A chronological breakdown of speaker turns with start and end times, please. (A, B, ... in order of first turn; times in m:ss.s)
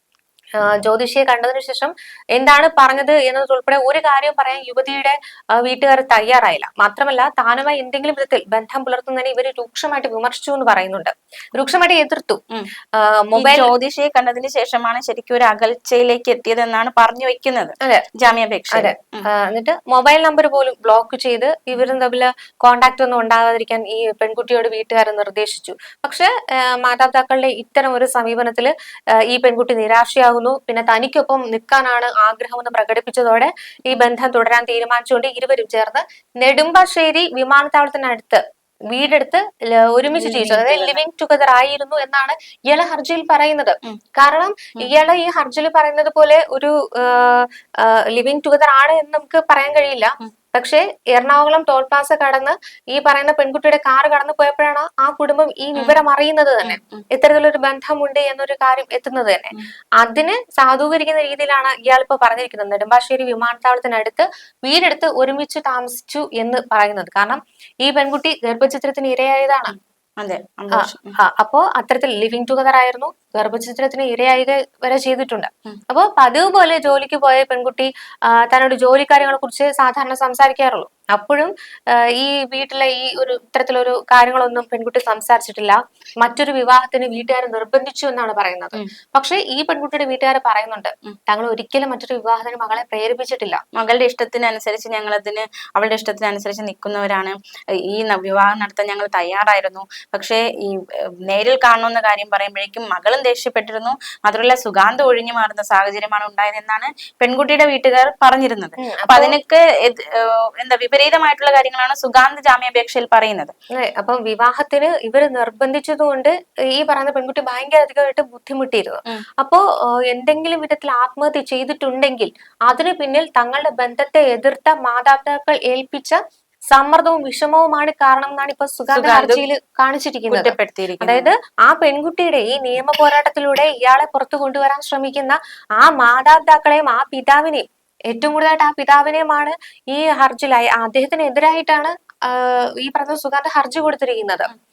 0:00.6-0:12.4 A
0:13.0-0:13.7 A
0:13.4-0:19.3 B
0:18.7-1:09.8 A
0:40.2-0:41.0 B
0:56.6-0:57.0 B
1:10.2-1:11.1 B
1:10.7-1:33.6 A
1:33.8-1:37.4 B
1:37.9-1:53.5 B
1:48.8-1:49.4 A
1:53.8-2:06.2 A
2:06.7-2:24.5 A
2:08.9-2:09.4 B
2:10.3-2:11.3 B